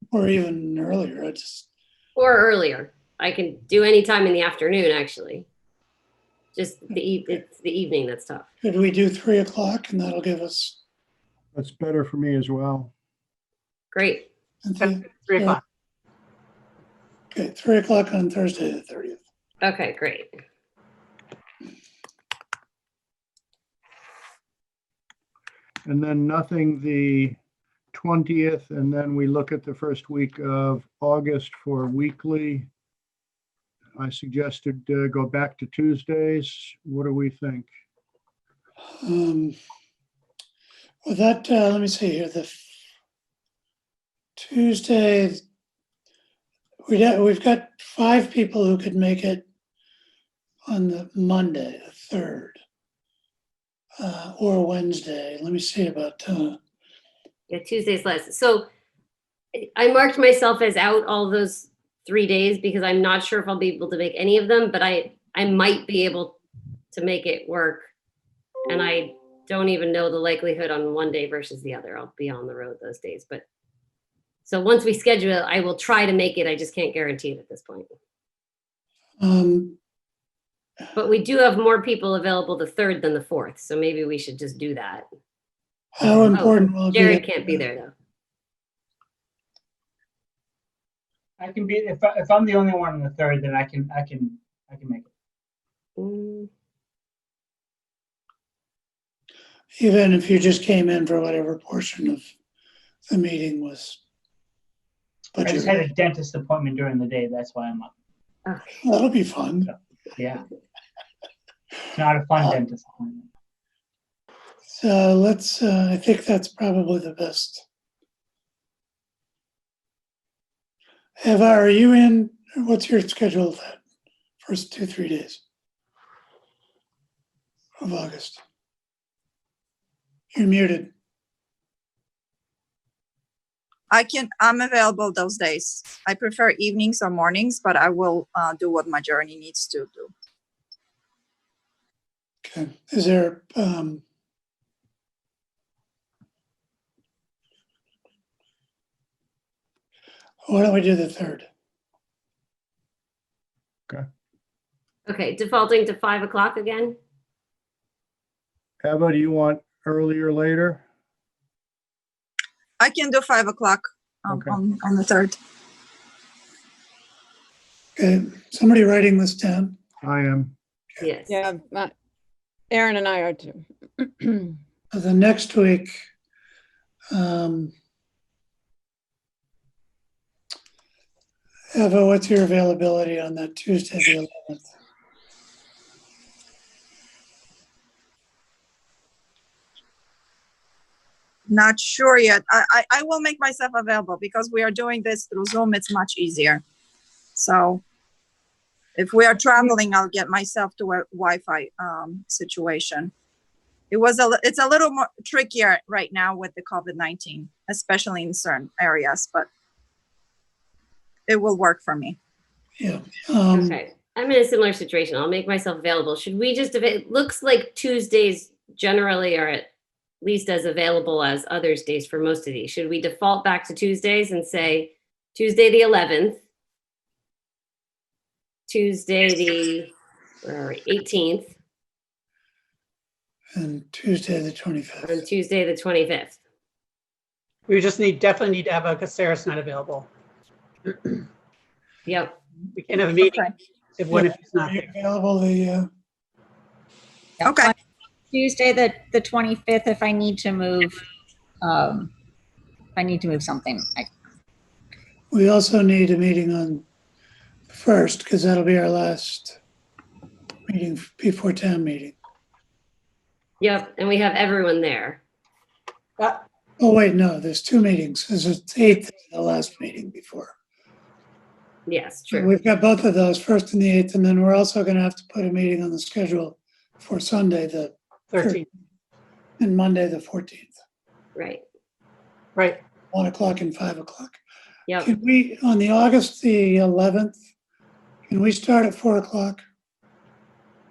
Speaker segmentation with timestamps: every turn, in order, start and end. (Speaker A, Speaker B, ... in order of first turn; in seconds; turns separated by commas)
Speaker A: 0.1-1.7, Speaker B: 2.2-5.5, Speaker B: 6.5-8.5, Speaker A: 8.6-10.8, Speaker C: 11.6-12.9, Speaker B: 13.9-14.3, Speaker A: 14.6-15.6, Speaker D: 14.8-15.6, Speaker A: 17.3-19.2, Speaker B: 19.6-20.4, Speaker C: 25.9-27.4, Speaker C: 27.9-32.7, Speaker C: 34.0-37.7, Speaker A: 39.0-39.6, Speaker A: 41.0-42.6, Speaker A: 44.4-45.4, Speaker A: 46.9-49.5, Speaker A: 50.7-52.6, Speaker A: 54.0-56.6, Speaker B: 57.5-58.7, Speaker B: 59.6-66.4, Speaker B: 66.9-67.8, Speaker B: 68.7-73.4, Speaker B: 74.5-77.9, Speaker A: 79.2-79.8, Speaker B: 81.0-85.1, Speaker A: 86.0-87.6, Speaker B: 86.3-87.9, Speaker E: 91.4-95.1, Speaker B: 96.0-96.5, Speaker A: 99.8-102.3, Speaker A: 103.1-104.0, Speaker A: 105.3-105.8, Speaker E: 105.4-107.9, Speaker A: 108.8-109.7, Speaker E: 109.7-110.4, Speaker E: 112.0-113.3, Speaker A: 114.7-117.7, Speaker A: 121.2-123.8, Speaker A: 124.4-125.4, Speaker A: 127.8-128.4, Speaker A: 130.3-130.9, Speaker F: 133.9-140.1, Speaker A: 142.4-144.0, Speaker A: 150.5-151.5, Speaker B: 155.1-157.0, Speaker C: 158.8-160.8, Speaker F: 162.8-165.4, Speaker C: 164.3-164.6, Speaker A: 168.0-169.8, Speaker C: 170.0-170.6, Speaker B: 171.0-171.4, Speaker G: 171.3-171.9, Speaker G: 172.7-174.5, Speaker A: 174.9-176.0, Speaker A: 177.1-177.7, Speaker A: 181.7-184.7, Speaker F: 191.5-196.6, Speaker F: 197.4-197.8, Speaker F: 198.9-203.1, Speaker F: 203.9-209.5, Speaker F: 211.3-212.2, Speaker A: 212.8-213.8, Speaker B: 213.5-219.7, Speaker B: 220.2-226.4, Speaker B: 228.7-231.5, Speaker A: 233.6-235.2, Speaker B: 235.0-236.4, Speaker D: 237.7-240.1, Speaker B: 242.1-242.4, Speaker D: 242.8-244.9, Speaker F: 243.2-243.5, Speaker A: 244.1-245.9, Speaker H: 247.4-247.8, Speaker F: 247.4-247.7, Speaker H: 248.3-251.0, Speaker H: 251.6-252.1, Speaker H: 253.0-254.1, Speaker A: 255.3-256.9, Speaker A: 257.7-259.6, Speaker A: 260.7-262.2, Speaker B: 263.6-265.2, Speaker A: 266.8-270.5, Speaker B: 271.9-272.5, Speaker A: 272.3-278.6, Speaker D: 278.3-278.7, Speaker A: 279.6-280.8, Speaker B: 281.4-281.6, Speaker D: 282.6-282.8, Speaker A: 283.1-284.4, Speaker A: 285.0-287.4, Speaker A: 288.3-289.6